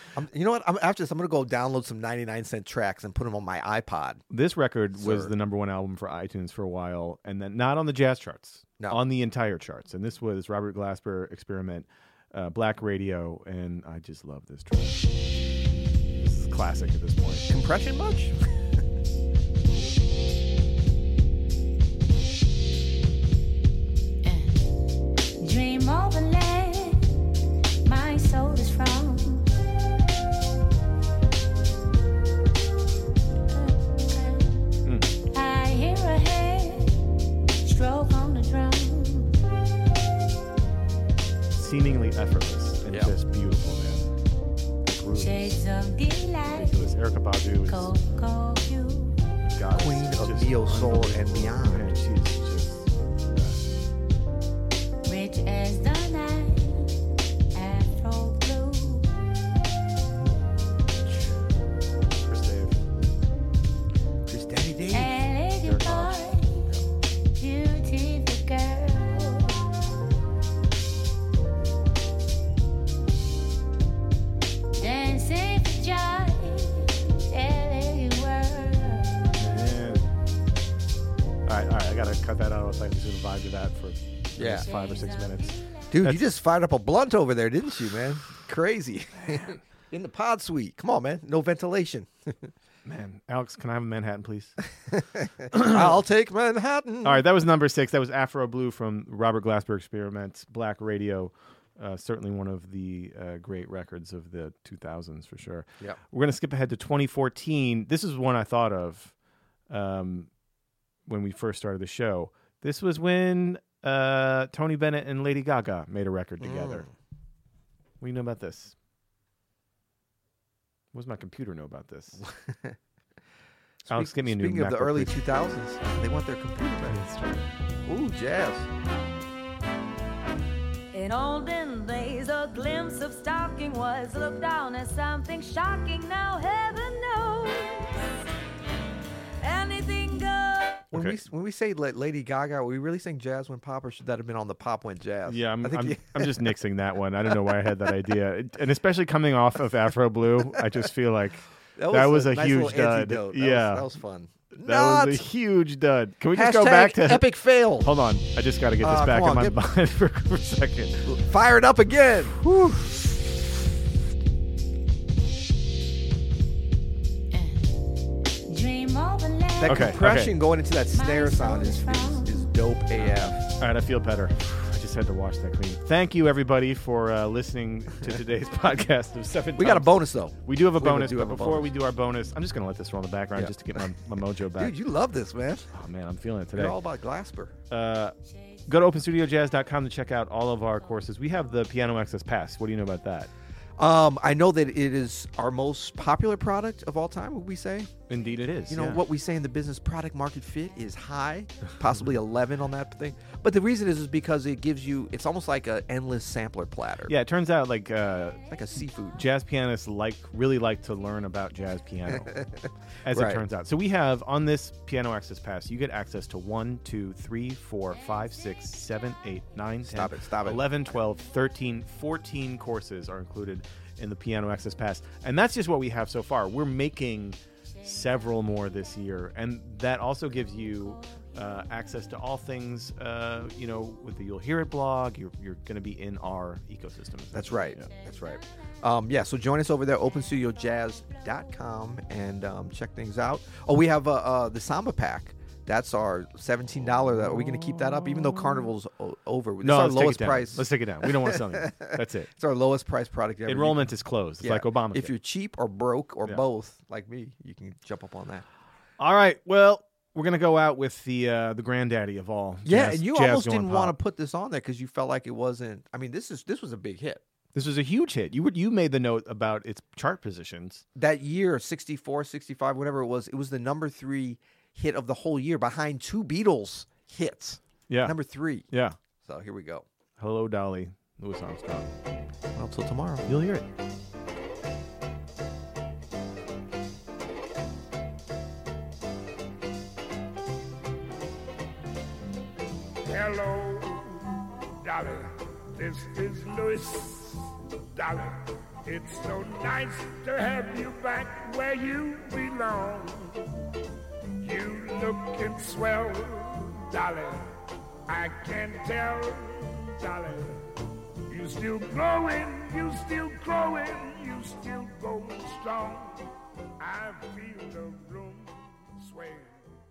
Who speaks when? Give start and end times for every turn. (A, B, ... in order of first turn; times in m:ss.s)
0:00.2-0:04.2 A
0:04.3-0:15.0 B
0:04.9-0:05.3 A
0:16.2-0:17.5 B
0:17.5-0:18.4 A
0:24.2-0:24.7 C
0:25.4-0:27.3 C
0:27.8-0:29.6 C
0:33.5-0:39.4 C
0:34.8-0:35.1 B
0:41.5-0:44.1 B
0:42.9-0:43.2 A
0:44.8-0:45.6 B
0:45.2-0:46.9 C
0:46.5-0:47.9 B
0:47.6-0:49.2 C
0:49.4-0:53.6 B
0:49.7-0:52.0 A
0:55.0-0:59.1 C
1:02.1-1:02.8 B
1:04.2-1:06.8 A
1:04.9-1:06.6 C
1:07.4-1:09.7 C
1:14.8-1:19.2 C
1:19.3-1:20.1 B
1:21.4-1:26.2 B
1:24.4-1:24.7 A
1:24.6-1:25.9 C
1:25.9-1:32.5 A
1:32.8-1:34.6 B
1:34.9-1:37.2 A
1:35.5-1:36.0 B
1:37.0-1:49.1 B
1:49.7-1:50.3 B
1:51.1-1:56.8 B
1:56.4-1:56.9 A
1:58.0-1:58.7 B
2:00.9-2:02.2 B
2:02.2-2:02.8 A
2:03.8-2:07.1 A
2:03.9-2:05.2 B
2:06.9-2:07.4 B
2:07.8-2:08.7 A
2:11.0-2:17.3 D
2:14.3-2:17.8 C
2:19.7-2:20.6 D
2:20.9-2:21.2 B
2:20.9-2:26.6 A
2:25.3-2:33.9 B
2:27.5-2:27.9 A
2:31.8-2:35.2 A
2:34.6-2:41.1 B
2:36.3-2:37.9 A
2:38.8-2:39.6 A
2:41.0-2:42.4 A
2:42.4-2:43.1 B
2:47.3-2:47.7 C
2:48.4-2:49.9 C
2:49.6-2:53.4 A
2:49.6-2:50.4 B
2:50.9-2:52.5 C
2:53.0-3:04.7 B
2:59.6-3:01.7 A
3:03.3-3:03.8 A
3:04.6-3:05.7 A
3:05.7-3:06.8 B
3:06.5-3:07.5 A
3:07.7-3:08.1 B
3:08.7-3:13.3 B
3:13.8-3:17.9 A
3:18.1-3:19.0 B
3:18.7-3:27.1 A
3:27.1-3:28.4 B
3:28.5-3:29.2 A
3:29.2-3:32.3 B
3:32.3-3:33.4 A
3:33.0-3:57.9 B
3:39.8-3:40.8 A
3:57.3-4:18.4 A
4:09.6-4:12.3 B
4:13.5-4:15.1 B
4:19.0-4:24.0 B
4:22.6-4:27.2 A
4:27.5-4:30.8 B
4:31.0-4:38.7 A
4:37.9-4:38.1 B
4:38.7-4:39.0 B
4:39.2-4:39.8 A
4:40.2-4:41.9 B
4:42.5-4:43.3 A
4:43.3-4:43.6 B
4:53.0-5:03.5 E
5:04.4-5:19.7 E